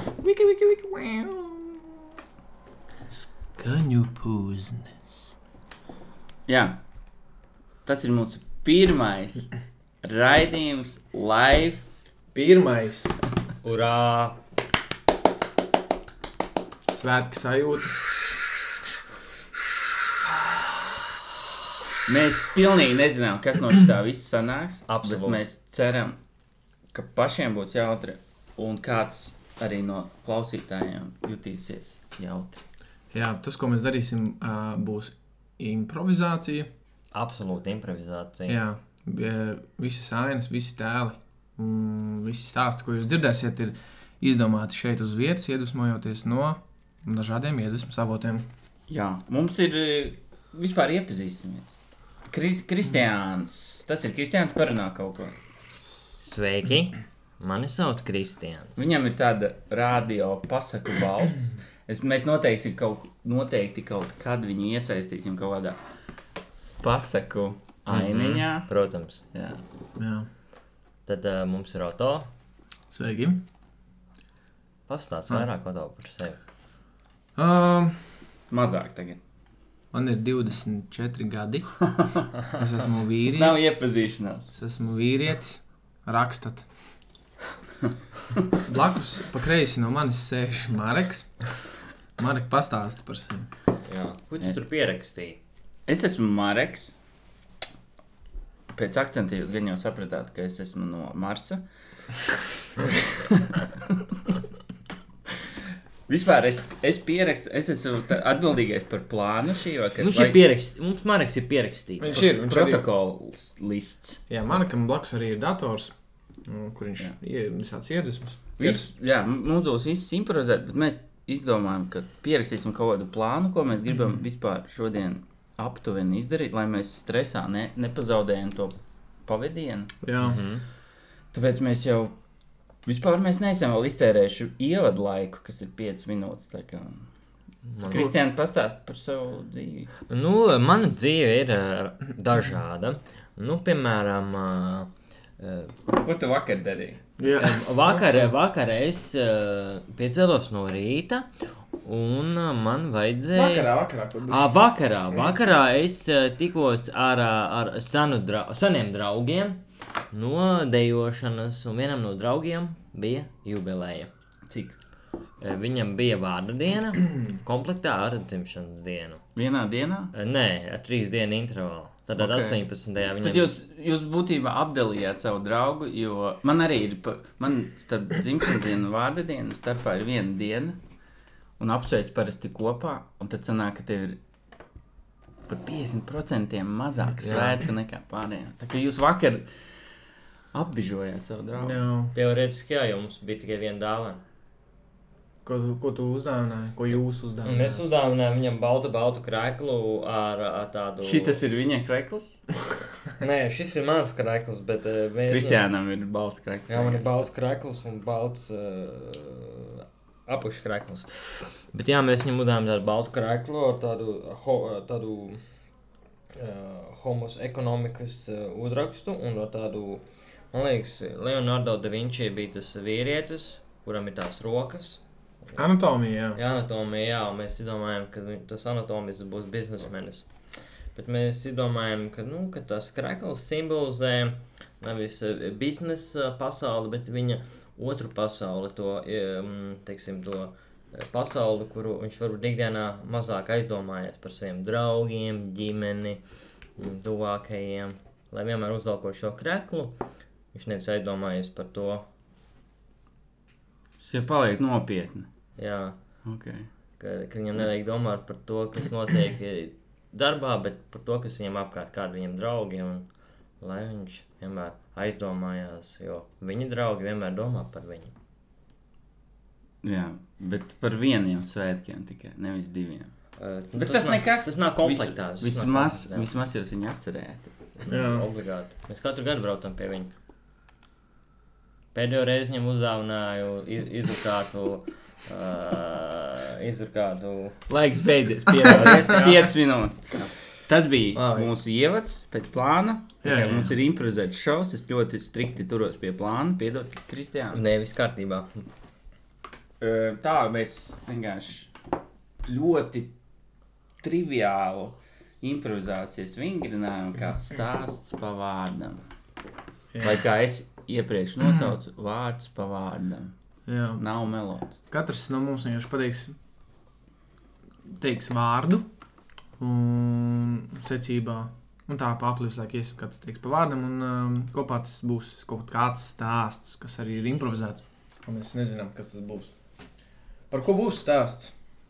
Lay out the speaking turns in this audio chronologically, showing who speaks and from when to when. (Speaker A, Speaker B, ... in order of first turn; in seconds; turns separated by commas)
Speaker A: 0.2-1.9, Speaker A: 3.1-5.3, Speaker B: 6.5-6.8, Speaker B: 7.9-9.5, Speaker B: 10.0-11.9, Speaker A: 12.3-13.2, Speaker C: 13.6-14.4, Speaker A: 16.9-18.0, Speaker B: 22.1-26.2, Speaker C: 24.9-25.4, Speaker B: 26.9-32.6, Speaker A: 33.1-36.7, Speaker C: 37.1-38.6, Speaker A: 38.5-48.5, Speaker B: 48.9-51.8, Speaker B: 52.3-55.4, Speaker C: 56.2-58.8, Speaker B: 58.8-65.8, Speaker B: 66.8-68.7, Speaker C: 67.9-69.2, Speaker B: 69.3-69.6, Speaker A: 70.0-70.3, Speaker C: 71.1-72.3, Speaker A: 72.9-73.4, Speaker C: 74.9-76.4, Speaker A: 77.4-78.0, Speaker B: 78.5-79.2, Speaker A: 79.9-81.8, Speaker B: 82.0-82.3, Speaker A: 82.5-83.6, Speaker B: 83.2-84.6, Speaker A: 84.5-86.7, Speaker A: 88.7-91.4, Speaker A: 92.2-93.5, Speaker C: 93.9-95.4, Speaker B: 95.9-96.9, Speaker B: 98.7-101.6, Speaker B: 102.8-103.6, Speaker B: 106.1-110.4, Speaker C: 110.0-112.3, Speaker A: 112.0-112.8, Speaker B: 112.2-114.2, Speaker A: 114.3-115.9, Speaker A: 116.5-118.9, Speaker B: 118.6-129.9, Speaker A: 130.0-130.4, Speaker C: 130.2-130.7, Speaker B: 131.3-132.2, Speaker B: 132.9-137.1, Speaker C: 137.7-138.1, Speaker B: 137.9-139.9, Speaker C: 140.1-145.8, Speaker B: 145.9-147.0, Speaker A: 147.2-148.3, Speaker C: 147.3-151.3, Speaker C: 151.8-153.7, Speaker A: 153.3-154.5, Speaker C: 154.3-159.6, Speaker C: 160.1-164.1, Speaker B: 164.5-164.8, Speaker C: 165.4-169.2, Speaker B: 169.3-170.1, Speaker C: 170.1-173.6, Speaker B: 172.2-172.6, Speaker B: 173.2-180.8, Speaker B: 181.6-184.2, Speaker B: 185.5-189.5, Speaker C: 187.2-187.6, Speaker B: 190.5-191.8, Speaker A: 191.6-192.2, Speaker C: 192.1-194.2, Speaker A: 195.4-197.8, Speaker C: 197.4-201.4, Speaker B: 201.0-202.4, Speaker C: 203.2-205.6, Speaker B: 205.3-207.3, Speaker C: 206.7-215.4, Speaker C: 216.3-225.0, Speaker A: 225.5-226.4, Speaker C: 226.3-230.3, Speaker C: 230.9-246.2, Speaker C: 246.8-250.0, Speaker C: 250.5-252.1, Speaker B: 254.0-255.3, Speaker C: 255.6-256.0, Speaker B: 256.2-256.7, Speaker C: 257.0-263.1, Speaker C: 263.6-268.1, Speaker B: 269.8-273.1, Speaker C: 273.4-276.3, Speaker B: 273.8-277.5, Speaker C: 277.8-280.1, Speaker A: 277.9-278.3, Speaker C: 281.9-287.6, Speaker B: 287.7-297.6, Speaker C: 288.6-289.5, Speaker A: 288.7-289.0, Speaker A: 291.1-291.6, Speaker A: 293.2-293.8, Speaker C: 297.5-298.6, Speaker B: 299.8-301.7, Speaker B: 302.5-303.1, Speaker B: 304.0-309.1, Speaker A: 309.9-310.2, Speaker B: 310.0-313.3, Speaker A: 313.7-314.0, Speaker B: 314.0-314.8, Speaker A: 314.9-316.4, Speaker A: 317.9-318.9, Speaker A: 319.6-329.5, Speaker A: 330.5-331.5